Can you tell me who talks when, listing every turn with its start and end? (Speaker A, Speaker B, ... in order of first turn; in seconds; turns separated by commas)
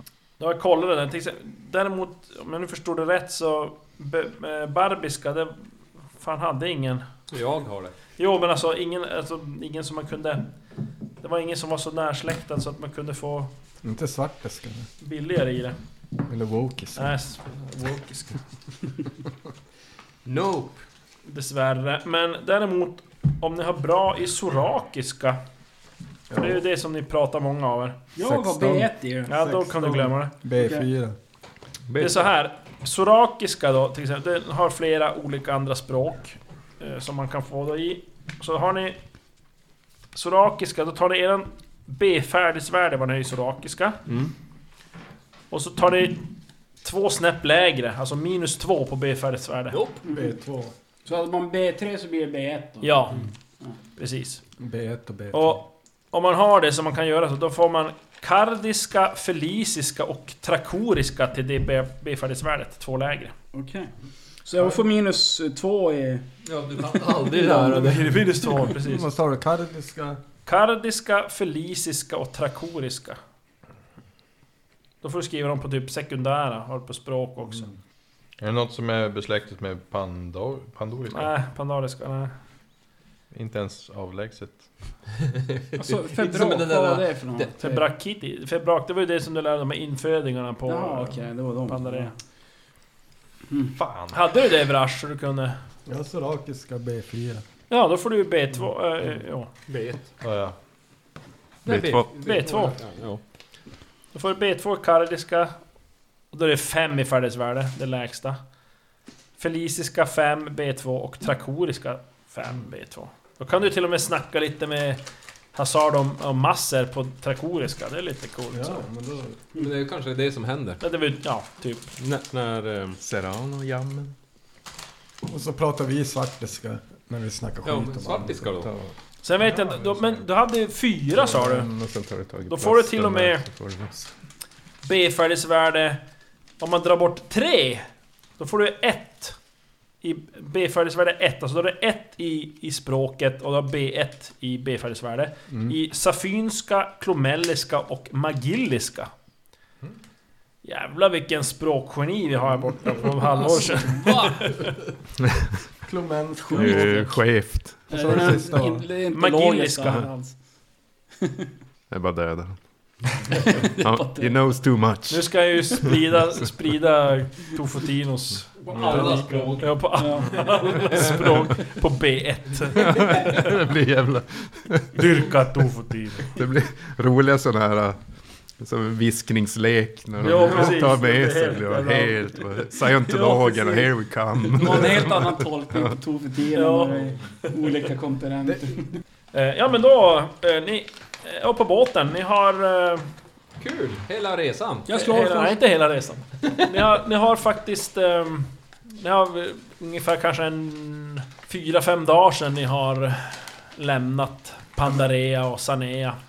Speaker A: 0.4-5.6, Speaker A: 6.2-7.0, Speaker B: 7.3-7.9, Speaker A: 8.2-10.5, Speaker A: 11.2-13.5, Speaker C: 13.8-14.9, Speaker A: 15.0-15.8, Speaker C: 16.2-17.1, Speaker A: 16.9-18.4, Speaker B: 20.2-20.8, Speaker A: 21.2-25.4, Speaker C: 26.3-26.6, Speaker A: 26.4-28.0, Speaker D: 28.1-30.0, Speaker C: 28.2-28.9, Speaker A: 29.3-30.3, Speaker C: 29.5-31.1, Speaker D: 30.5-30.9, Speaker B: 31.9-32.3, Speaker A: 32.0-39.0, Speaker A: 40.1-44.0, Speaker B: 44.0-44.3, Speaker A: 45.5-46.3, Speaker A: 46.8-49.8, Speaker B: 49.7-50.0, Speaker D: 50.0-50.4, Speaker C: 50.1-50.7, Speaker D: 51.0-53.8, Speaker A: 52.8-53.2, Speaker A: 54.0-54.4, Speaker C: 54.6-55.6, Speaker A: 55.3-63.3, Speaker D: 63.5-63.9, Speaker D: 64.4-66.2, Speaker B: 66.4-68.2, Speaker D: 67.3-68.5, Speaker A: 67.3-69.1, Speaker C: 68.8-70.2, Speaker A: 70.5-73.2, Speaker A: 75.0-77.7, Speaker E: 78.4-81.3, Speaker A: 81.1-82.3, Speaker E: 83.3-84.7, Speaker B: 85.2-87.5, Speaker D: 85.8-87.9, Speaker A: 87.6-92.1, Speaker D: 90.7-92.1, Speaker D: 93.5-93.8, Speaker E: 93.7-94.2, Speaker A: 94.1-95.6, Speaker C: 95.8-97.4, Speaker A: 97.7-99.5, Speaker B: 99.7-100.1, Speaker E: 100.2-100.5, Speaker F: 101.7-102.1, Speaker B: 101.7-103.2, Speaker A: 101.7-102.8, Speaker A: 104.1-105.6, Speaker A: 106.3-108.4, Speaker A: 109.4-115.0, Speaker A: 115.5-118.8, Speaker C: 118.5-119.4, Speaker B: 119.5-120.8, Speaker A: 120.8-121.9, Speaker B: 122.0-123.0, Speaker F: 123.0-124.1, Speaker C: 125.3-128.4, Speaker B: 127.6-128.7, Speaker F: 128.6-128.9, Speaker A: 129.2-131.7, Speaker F: 131.3-134.1, Speaker A: 132.4-133.5, Speaker A: 134.8-136.0, Speaker A: 136.6-137.8, Speaker A: 138.4-139.3, Speaker A: 140.0-149.1, Speaker C: 145.5-145.7, Speaker A: 150.6-154.8, Speaker C: 155.8-157.1, Speaker D: 156.5-157.1, Speaker F: 156.5-158.3, Speaker D: 157.9-160.3, Speaker C: 157.9-158.8, Speaker A: 159.1-160.1, Speaker D: 161.2-161.5, Speaker F: 161.9-163.2, Speaker D: 163.4-164.4, Speaker F: 163.8-165.2, Speaker A: 165.1-173.4, Speaker B: 168.7-169.8, Speaker D: 170.0-170.4, Speaker F: 172.8-174.9, Speaker A: 174.9-176.3, Speaker F: 176.2-178.0, Speaker F: 178.6-185.9, Speaker A: 180.2-183.9, Speaker D: 184.5-189.0, Speaker A: 186.5-187.1, Speaker A: 189.3-193.1, Speaker B: 193.6-194.9, Speaker D: 194.9-195.6, Speaker A: 194.9-206.2